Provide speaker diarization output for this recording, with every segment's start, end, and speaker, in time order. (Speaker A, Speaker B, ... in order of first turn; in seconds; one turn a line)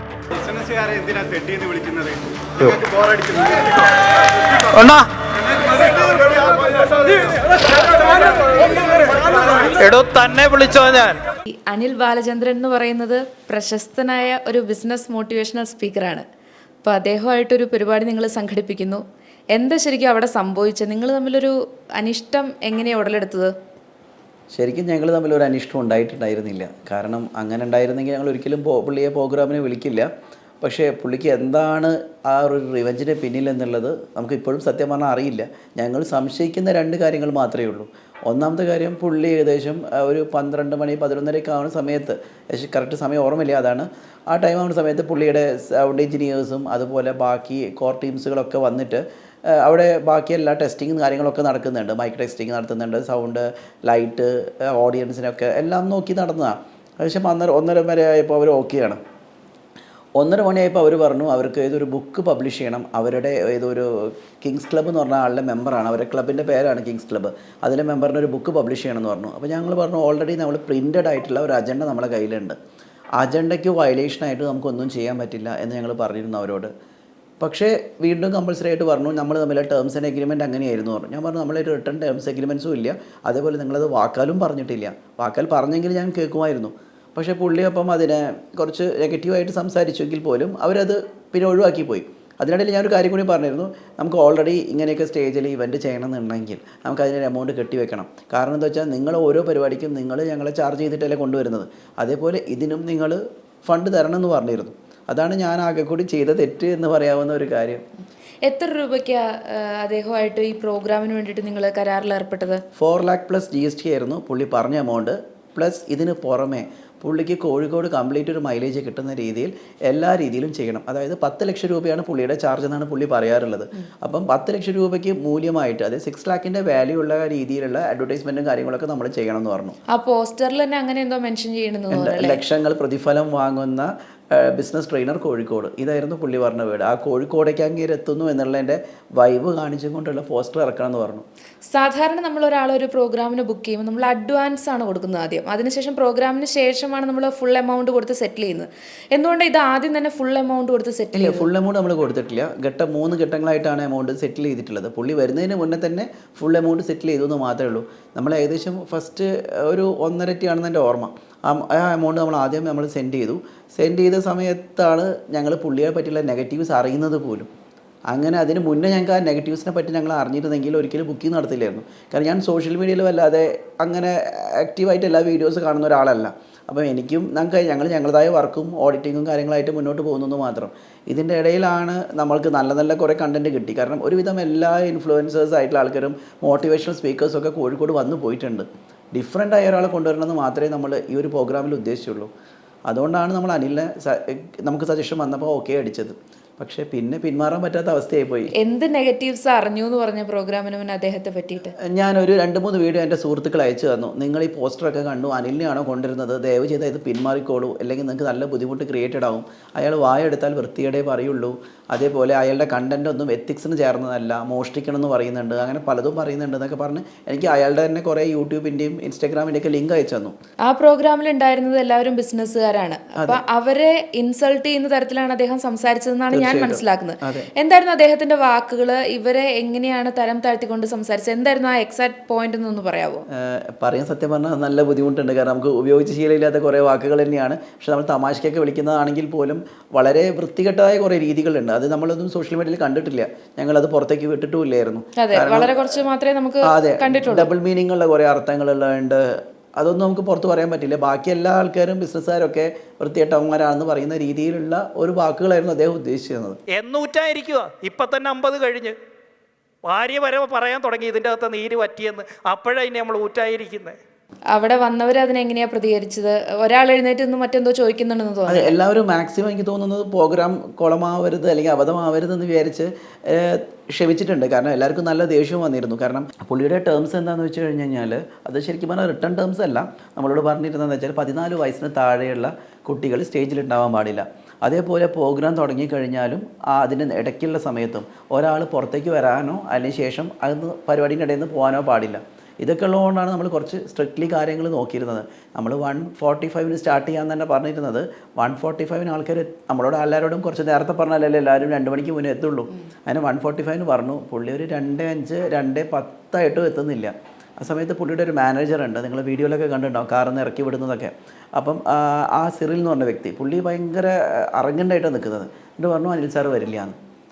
Speaker A: 0.5-3.5
Speaker A: 4.6-5.1
Speaker A: 5.7-6.5
Speaker A: 9.6-11.2
Speaker B: 11.5-16.2
Speaker B: 16.8-23.5
Speaker C: 24.5-30.1
Speaker C: 30.6-59.0
Speaker C: 60.2-72.6
Speaker C: 73.2-76.7
Speaker C: 77.4-107.8
Speaker B: 108.4-112.6
Speaker C: 112.8-129.8
Speaker B: 129.9-132.4
Speaker C: 131.9-141.2
Speaker B: 141.7-151.5
Speaker C: 151.1-167.5
Speaker C: 168.1-192.3
Speaker C: 192.9-198.5
Speaker B: 198.6-201.7
Speaker C: 201.8-220.3
Speaker B: 220.7-233.2
Speaker C: 226.3-227.5
Speaker C: 233.3-246.0
Speaker B: 245.2-247.5
Speaker C: 246.6-256.6
Speaker A: 256.7-258.9
Speaker A: 259.8-264.0
Speaker B: 264.5-268.7
Speaker C: 268.5-317.0